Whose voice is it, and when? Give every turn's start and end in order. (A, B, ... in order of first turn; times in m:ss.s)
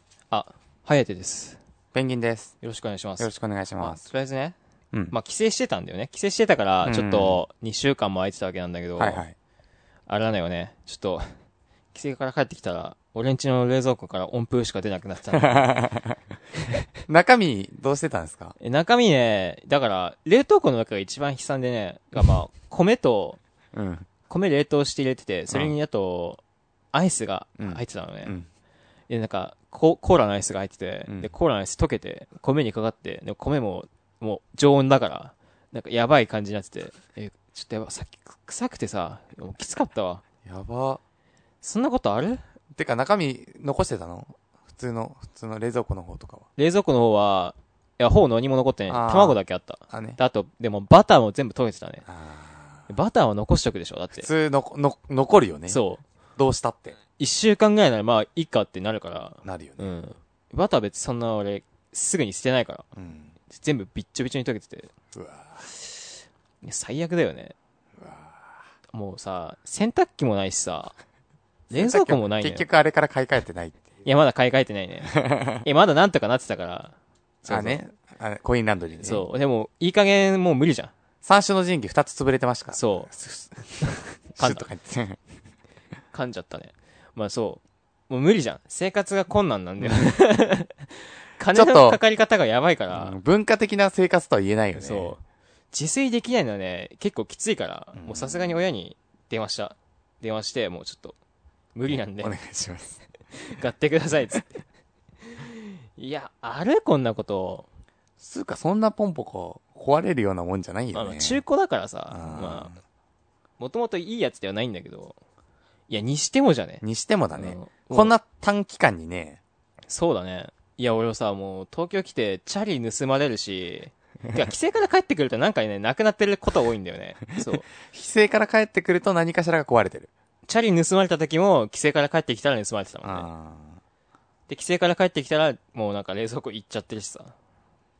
0:00.3-0:01.6 A
0:01.9-0:02.5 B
0:02.6-0:04.6 A
0:03.2-0:04.0 B
0:05.1-0:09.2 A
0:06.8-0:07.4 B
0:09.0-0:09.3 B
0:10.1-0:11.3 A
0:11.9-0:15.9 A
0:15.4-0:16.2 B
0:17.1-0:18.6 B
0:18.6-0:23.4 A
0:23.7-0:24.1 B
0:24.3-0:26.4 A
0:26.9-0:28.3 A
0:27.6-0:28.5 B
0:29.1-0:40.2 A
0:40.4-0:41.0 B
0:41.6-0:42.4 A
0:42.7-0:46.5 B
0:46.6-0:52.0 A
0:48.9-0:49.4 B
0:49.9-0:50.2 B
0:52.0-0:52.9 B
0:52.9-0:54.3 A
0:54.2-0:55.8 B
0:55.7-0:56.0 A
0:56.4-0:57.0 B
0:57.2-1:02.8 A
0:59.4-0:59.9 B
1:02.9-1:03.3 B
1:03.5-1:04.9 A
1:05.1-1:05.6 B
1:06.6-1:07.5 A
1:08.0-1:08.6 B
1:08.9-1:10.9 A
1:11.7-1:14.0 B
1:11.7-1:12.6 A
1:14.0-1:17.8 A
1:15.1-1:15.6 B
1:17.5-1:19.2 B
1:19.0-1:20.9 A
1:21.2-1:25.2 B
1:22.7-1:23.1 A
1:23.8-1:24.6 A
1:26.1-1:33.2 A
1:29.8-1:30.1 B
1:31.5-1:32.0 B
1:32.9-1:35.1 B
1:34.8-1:35.2 A
1:35.7-1:41.2 A
1:37.9-1:38.6 B
1:41.7-1:42.4 A
1:41.9-1:43.0 B
1:43.3-1:44.6 A
1:45.2-1:47.7 A
1:48.2-1:51.4 B
1:50.9-1:52.8 A
1:52.1-1:52.8 B
1:53.6-1:55.2 A
1:55.9-1:56.8 A
1:56.8-1:59.4 B
1:57.4-1:58.1 A
1:59.9-2:07.6 A
2:07.4-2:10.1 B
2:10.4-2:13.3 A
2:13.0-2:13.8 B
2:14.5-2:17.3 A